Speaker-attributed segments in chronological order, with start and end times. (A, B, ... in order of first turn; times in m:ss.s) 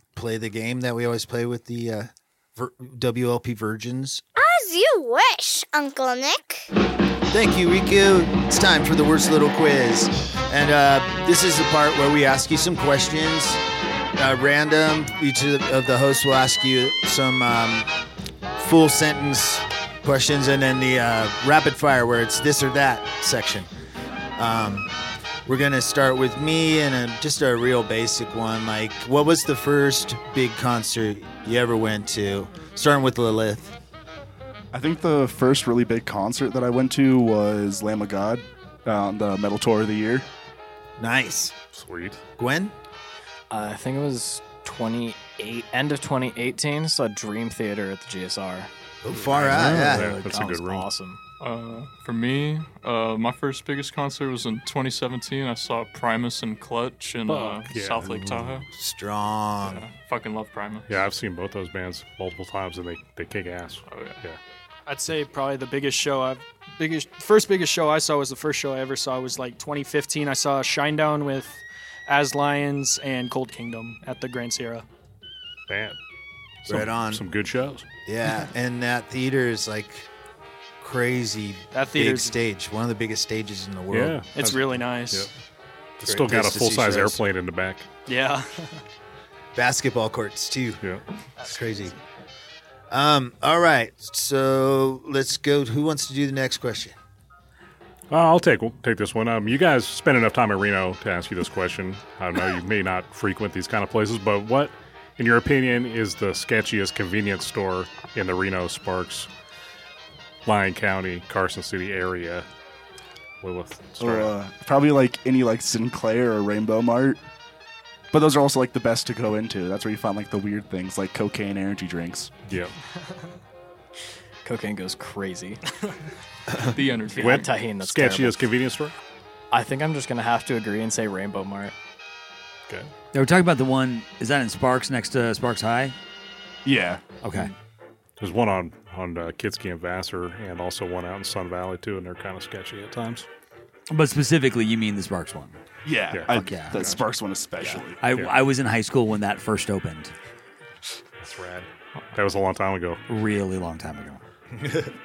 0:00.1-0:04.2 A
0:04.4-0:06.7 B
0:07.3-0:13.6 A
0:14.2-0:17.9 A
0:18.6-0:23.7 A
0:24.4-0:24.9 A
0:25.4-0:33.8 A
0:34.7-0:40.3 C
0:41.0-0:41.5 A
0:41.7-0:42.2 D
0:42.4-0:42.7 A
0:43.5-0:48.7 E
0:49.0-0:50.2 A
0:49.1-0:50.9 D
0:49.4-0:51.2 E
0:51.4-0:58.6 F
0:57.3-0:58.4 D
0:58.7-0:59.8 A
0:59.6-1:00.9 F
1:00.9-1:04.4 D
1:03.9-1:04.2 F
1:04.9-1:14.8 G
1:15.7-1:16.0 D
1:16.6-1:17.8 D
1:16.7-1:17.2 A
1:18.0-1:20.1 A
1:20.8-1:24.2 A
1:21.7-1:22.4 G
1:23.9-1:25.3 D
1:24.3-1:25.3 G
1:26.0-1:27.8 D
1:26.0-1:27.2 A
1:28.1-1:28.8 G
1:29.5-1:30.8 A
1:31.4-1:31.9 A
1:32.9-1:36.9 A
1:38.1-1:49.3 D
1:50.4-1:52.4 D
1:53.4-1:54.3 D
1:54.0-1:57.2 C
1:58.1-2:02.3 C
2:02.5-2:02.7 D
2:04.4-2:05.6 E
2:06.7-2:07.5 F
2:07.1-2:08.5 E
2:07.1-2:08.9 D
2:09.5-2:11.7 E
2:13.1-2:16.0 H
2:16.6-2:17.0 C
2:17.2-2:17.5 H
2:18.2-2:23.2 D
2:23.9-2:25.6 H
2:25.8-2:28.0 C
2:26.1-2:27.0 D
2:26.3-2:26.9 H
2:28.0-2:30.1 H
2:31.2-2:33.0 D
2:33.1-2:34.2 H